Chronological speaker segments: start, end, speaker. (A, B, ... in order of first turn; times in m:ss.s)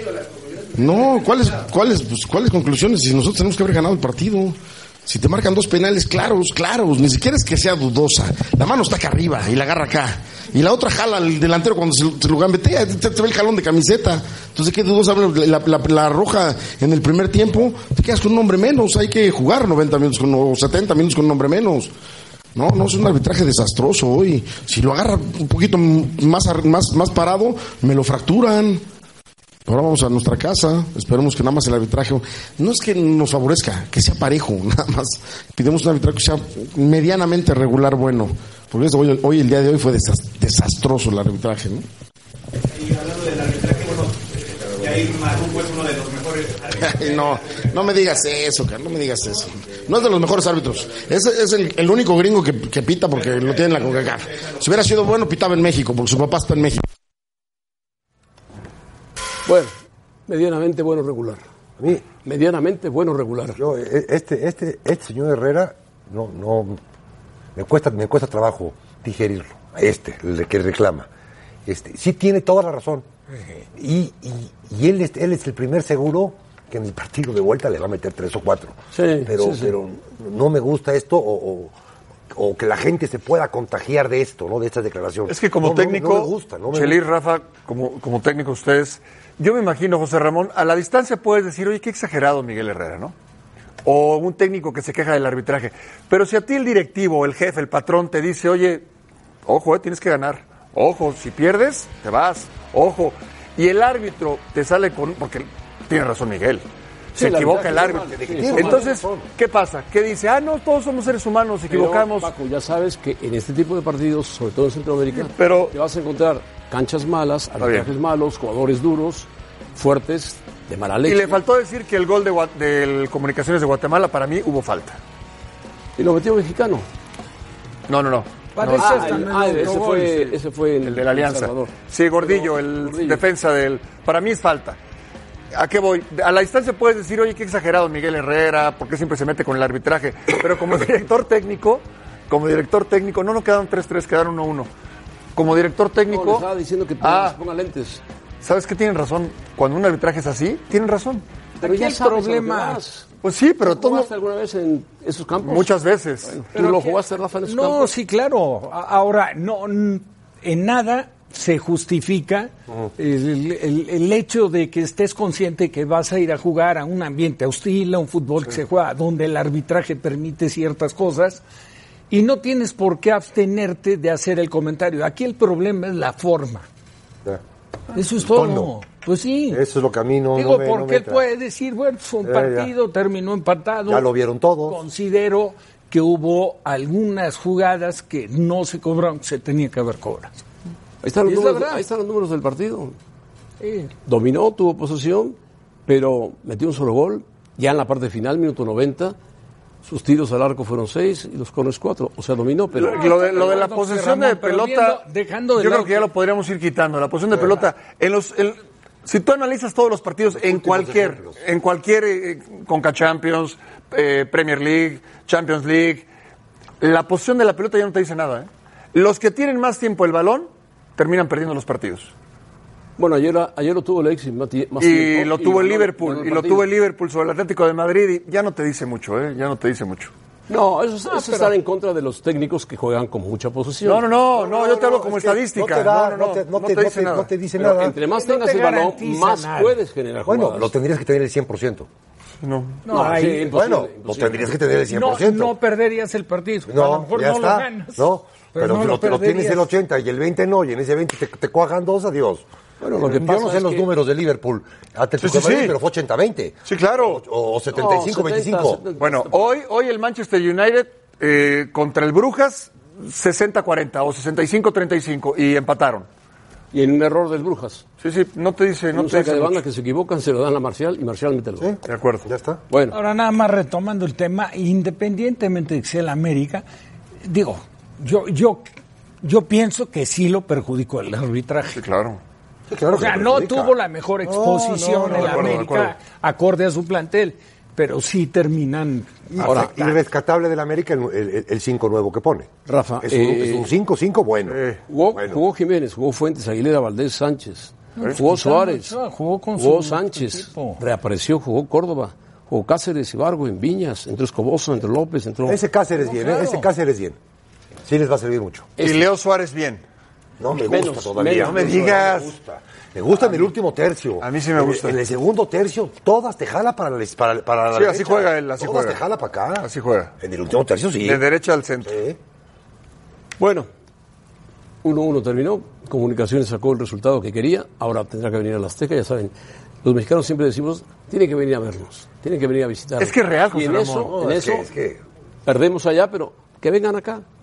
0:00.8-0:21.9 A
0:22.6-0:28.8 A
0:29.7-0:41.9 A
0:43.0-0:43.8 B
0:45.1-0:46.0 B
0:46.6-0:56.9 A
0:59.5-0:59.8 C
1:00.3-1:01.4 C
1:01.8-1:02.0 D
1:02.2-1:03.6 C
1:03.6-1:06.8 D
1:07.6-1:11.1 D
1:11.7-1:13.0 D
1:13.8-1:21.7 D
1:18.9-1:19.7 C
1:22.3-1:27.0 D
1:25.3-1:33.1 E
1:33.8-1:38.9 E
1:39.5-1:52.3 E
1:47.2-1:48.9 C
1:47.5-1:49.3 D
1:51.7-2:01.4 C
1:55.2-1:55.7 E
1:57.6-1:57.9 E
2:01.0-2:05.0 E
2:06.0-2:06.9 C
2:07.9-2:09.7 E
2:08.6-2:10.4 B
2:08.7-2:13.2 C
2:10.8-2:14.8 E
2:15.5-2:24.7 E
2:25.4-2:26.5 E
2:26.1-2:28.0 C
2:27.0-2:27.4 E
2:28.4-2:31.2 E
2:31.6-2:32.8 B
2:31.6-2:33.1 C
2:33.2-2:34.1 E
2:33.6-2:35.7 C
2:35.4-2:36.3 E
2:36.2-2:37.9 C
2:36.5-2:51.4 B
2:52.1-2:56.7 B
2:57.9-2:59.6 B
2:58.2-2:58.7 D
2:59.5-3:01.2 D
3:00.4-3:04.1 B
3:02.2-3:02.7 D
3:03.9-3:04.8 D
3:04.6-3:10.3 B
3:11.0-3:13.0 C
3:11.2-3:11.8 B
3:13.6-3:13.9 B
3:14.0-3:15.4 C
3:15.9-3:19.2 C
3:19.8-3:23.1 C
3:22.8-3:25.0 E
3:22.8-3:26.1 B
3:25.6-3:36.1 E
3:30.3-3:31.4 D
3:36.8-3:42.1 E
3:43.0-3:46.7 C
3:44.8-3:50.1 E
3:50.5-3:54.0 C
3:51.1-3:51.6 B
3:53.8-3:57.3 E
3:54.3-3:58.0 D
3:57.6-4:00.7 C
3:58.0-3:59.8 B
4:00.3-4:01.9 D
4:02.4-4:02.8 E
4:02.8-4:03.6 B
4:02.9-4:04.5 C
4:03.5-4:05.6 D
4:04.9-4:09.7 B
4:06.7-4:12.4 D
4:12.8-4:13.9 C
4:13.0-4:18.8 D
4:15.2-4:15.8 E
4:16.7-4:17.2 E
4:17.7-4:19.5 C
4:19.0-4:26.1 E
4:26.7-4:27.8 C
4:28.0-4:29.6 E
4:28.9-4:31.7 C
4:31.6-4:32.6 D
4:31.9-4:32.3 E
4:32.7-4:33.0 C
4:32.9-4:36.6 B
4:37.2-4:38.7 B
4:39.2-4:41.8 B
4:41.7-4:42.2 E
4:42.7-4:45.6 D
4:42.9-4:50.0 B
4:45.1-4:45.9 E
4:49.3-4:54.6 D
4:49.4-4:49.7 C
4:52.7-4:53.7 C
4:54.5-4:54.8 E
4:54.9-4:59.0 C
4:55.1-4:55.4 D
4:58.0-5:00.8 B
4:59.6-5:05.6 C
5:05.5-5:07.2 D
5:06.0-5:06.7 B
5:07.8-5:08.7 D
5:08.8-5:09.1 C
5:08.8-5:09.8 E
5:10.4-5:19.7 D
5:10.7-5:11.9 C
5:11.3-5:12.3 E
5:14.2-5:15.0 E
5:17.7-5:19.0 E
5:19.6-5:20.1 E
5:20.2-5:21.2 D
5:21.0-5:22.0 E
5:21.8-5:22.2 D
5:23.4-5:23.7 C
5:24.8-5:34.7 C
5:33.0-5:34.2 E
5:34.1-5:35.0 D
5:35.5-5:37.2 C